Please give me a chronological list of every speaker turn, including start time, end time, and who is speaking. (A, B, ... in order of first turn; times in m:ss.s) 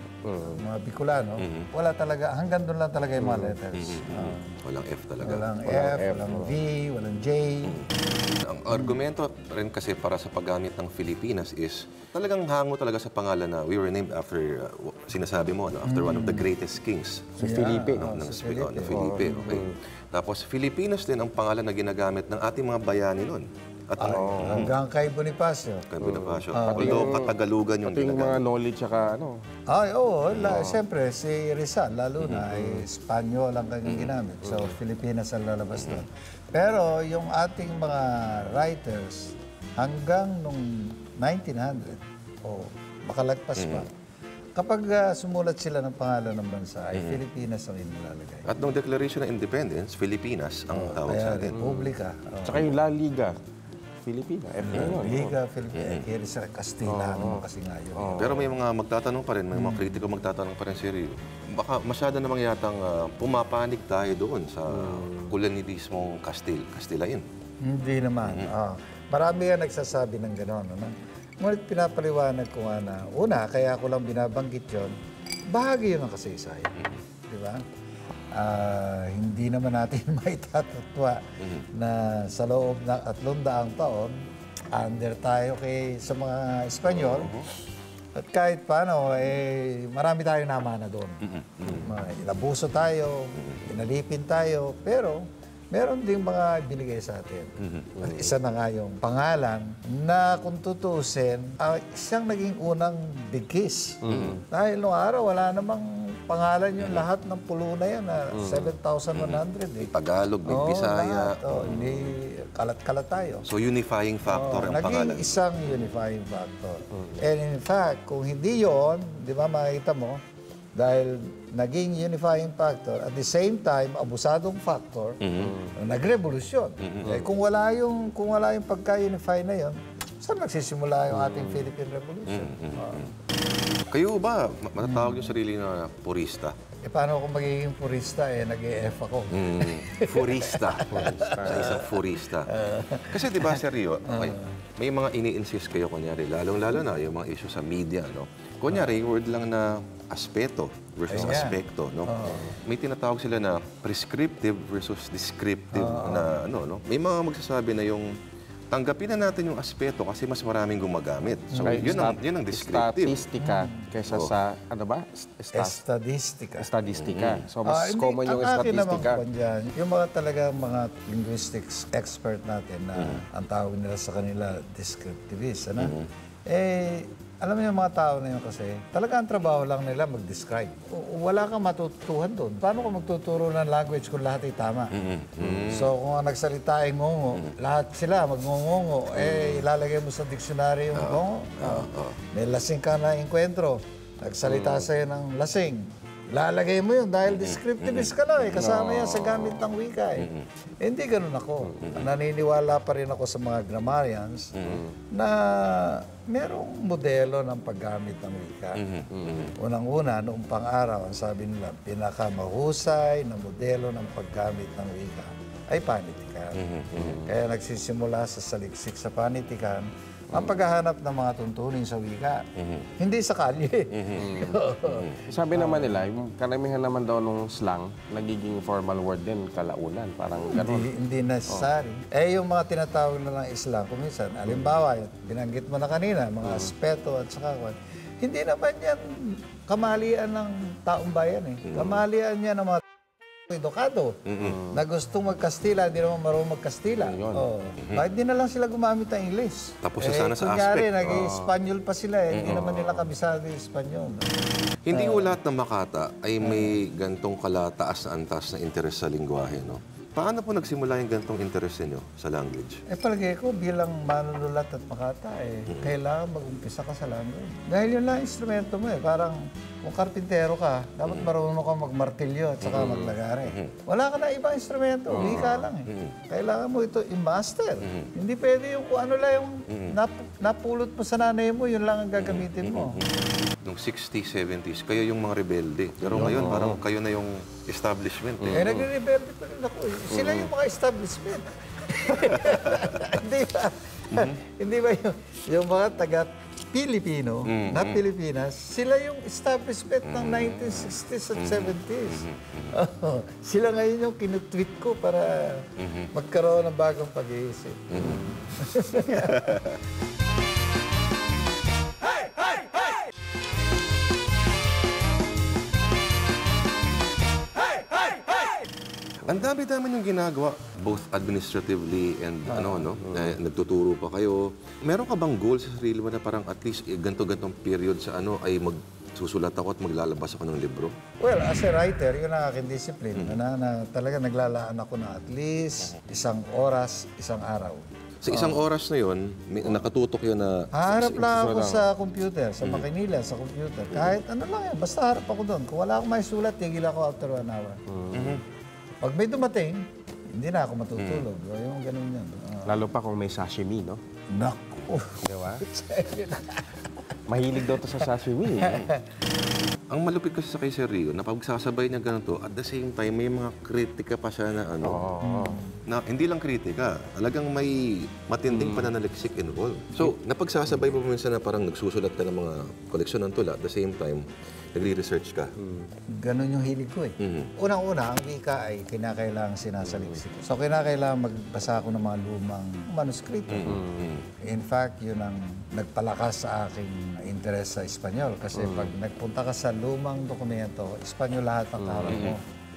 0:00.2-0:00.6 A
0:00.4-0:04.6 B
0:01.4-0:01.7 C
0:03.2-0:03.6 A
0:03.7-0:05.5 C
0:05.2-0:07.8 B
0:05.6-0:06.6 A
0:07.6-0:17.4 C
0:08.7-0:09.0 B
0:15.8-0:16.5 B
0:17.4-0:18.1 A
0:17.4-0:19.5 B
0:17.9-0:24.7 C
0:18.9-0:19.8 A
0:24.0-0:25.9 B
0:24.1-0:24.7 A
0:25.9-0:28.4 C
0:26.0-0:29.4 A
0:26.5-0:27.2 B
0:29.7-0:43.9 B
0:30.3-0:30.7 C
0:30.5-0:30.8 A
0:32.2-0:32.5 C
0:32.5-0:32.8 A
0:33.8-0:34.2 C
0:34.4-0:34.8 A
0:35.7-0:36.0 C
0:43.6-0:43.9 C
0:44.6-0:48.5 B
0:46.9-0:47.2 C
0:48.4-0:51.6 C
0:50.7-0:51.0 A
0:51.1-0:52.7 B
0:51.5-0:51.9 A
0:52.4-0:53.4 A
0:54.0-0:55.4 A
0:54.6-0:58.3 B
0:55.7-0:56.1 C
0:56.8-0:58.5 A
0:58.2-1:07.2 C
0:59.5-1:00.0 B
1:04.7-1:05.3 A
1:07.6-1:15.0 B
1:08.2-1:08.5 C
1:15.5-1:16.7 B
1:16.8-1:17.0 C
1:17.3-1:17.6 B
1:18.3-1:27.4 B
1:21.4-1:21.6 C
1:26.9-1:27.5 C
1:28.1-1:49.9 B
1:31.2-1:31.9 C
1:33.4-1:33.6 C
1:37.6-1:38.0 C
1:38.0-1:38.3 A
1:44.0-1:44.4 A
1:44.1-1:44.4 C
1:46.8-1:47.0 C
1:48.3-1:48.7 A
1:49.1-1:51.8 C
1:50.4-1:53.5 B
1:51.6-1:52.1 A
1:53.4-1:55.5 C
1:54.2-2:00.2 B
1:56.9-1:57.2 A
2:00.7-2:13.1 B
2:05.2-2:05.6 C
2:05.4-2:05.7 A
2:06.8-2:07.1 C
2:11.1-2:11.7 A
2:12.3-2:13.1 C
2:13.7-2:16.6 C
2:14.8-2:15.4 B
2:16.8-2:24.5 B
2:19.3-2:22.5 C
2:20.8-2:21.8 A
2:23.0-2:38.1 C
2:31.1-2:32.5 B
2:35.7-2:36.4 B
2:38.7-2:43.3 C
2:41.5-2:42.0 B
2:41.6-2:45.8 A
2:43.4-2:43.9 B
2:44.1-2:44.3 C
2:45.5-2:46.7 B
2:46.6-2:49.2 A
2:46.9-2:47.4 C
2:47.6-2:56.0 B
2:53.0-2:53.2 C
2:55.8-2:56.1 C
2:56.5-3:05.0 B
3:04.9-3:05.9 C
3:05.6-3:20.3 B
3:09.2-3:09.6 C
3:10.9-3:12.2 C
3:14.4-3:14.8 A
3:17.3-3:18.7 C
3:18.5-3:19.6 A
3:20.2-3:20.4 C
3:20.8-3:24.5 B
3:21.6-3:22.0 A
3:21.8-3:22.1 C
3:24.5-3:24.8 C
3:24.6-3:24.9 A
3:25.1-3:28.8 B
3:28.8-3:29.6 C
3:29.1-3:29.5 A
3:29.6-3:36.6 B
3:36.5-3:37.2 C
3:36.9-3:37.3 A
3:37.2-3:42.5 B
3:42.5-3:42.9 C
3:43.0-3:46.0 B
3:43.9-3:44.3 C
3:44.2-3:44.6 A
3:44.8-3:45.2 C
3:45.3-3:50.9 A
3:50.5-4:02.8 B
3:56.4-3:56.7 A
4:01.6-4:02.0 C
4:03.5-4:14.3 B
4:04.2-4:04.6 C
4:04.4-4:04.8 A
4:07.0-4:07.5 A
4:07.8-4:08.0 C
4:09.8-4:11.3 C
4:11.0-4:11.5 A
4:12.3-4:12.6 C
4:12.4-4:13.0 A
4:14.8-4:22.8 C
4:14.9-4:15.3 B
4:22.9-4:43.0 B
4:25.7-4:25.9 C
4:31.0-4:31.3 C
4:32.6-4:33.8 C
4:32.7-4:33.2 A
4:35.1-4:35.6 A
4:35.2-4:36.1 C
4:37.8-4:38.1 C
4:39.7-4:40.0 C
4:42.2-4:48.8 C
4:46.1-4:46.8 A
4:48.4-4:48.8 A
4:48.5-5:09.7 B
4:50.1-4:50.5 A
4:52.4-4:53.0 C
4:54.1-4:54.4 C
4:57.4-4:58.0 C
5:00.0-5:02.8 C
5:05.8-5:06.1 C
5:07.9-5:08.3 C
5:08.0-5:08.4 A
5:09.2-5:09.8 C
5:19.2-5:31.0 C
5:22.5-5:22.9 B
5:31.2-5:38.6 B
5:33.1-5:33.4 C
5:38.2-5:41.3 C
5:40.7-5:47.8 B
5:41.0-5:41.9 A
5:42.6-5:42.9 C
5:47.9-5:48.4 A
5:48.1-5:48.4 C
5:49.0-5:52.8 B
5:51.0-5:51.3 C
5:52.6-5:54.0 A
5:54.3-5:58.1 B
5:55.2-5:55.6 A
5:57.3-5:58.8 A
5:58.6-5:59.0 B
5:59.9-6:05.0 C
6:04.8-6:05.6 A
6:05.2-6:05.8 B
6:05.8-6:15.5 C
6:08.5-6:08.9 A
6:15.6-6:15.9 A
6:16.1-6:23.8 B
6:17.2-6:17.5 C
6:19.9-6:20.2 A
6:23.5-6:24.3 C
6:23.6-6:24.0 A
6:24.4-6:32.4 B
6:28.5-6:28.9 A
6:31.8-6:32.4 A
6:32.1-6:32.4 C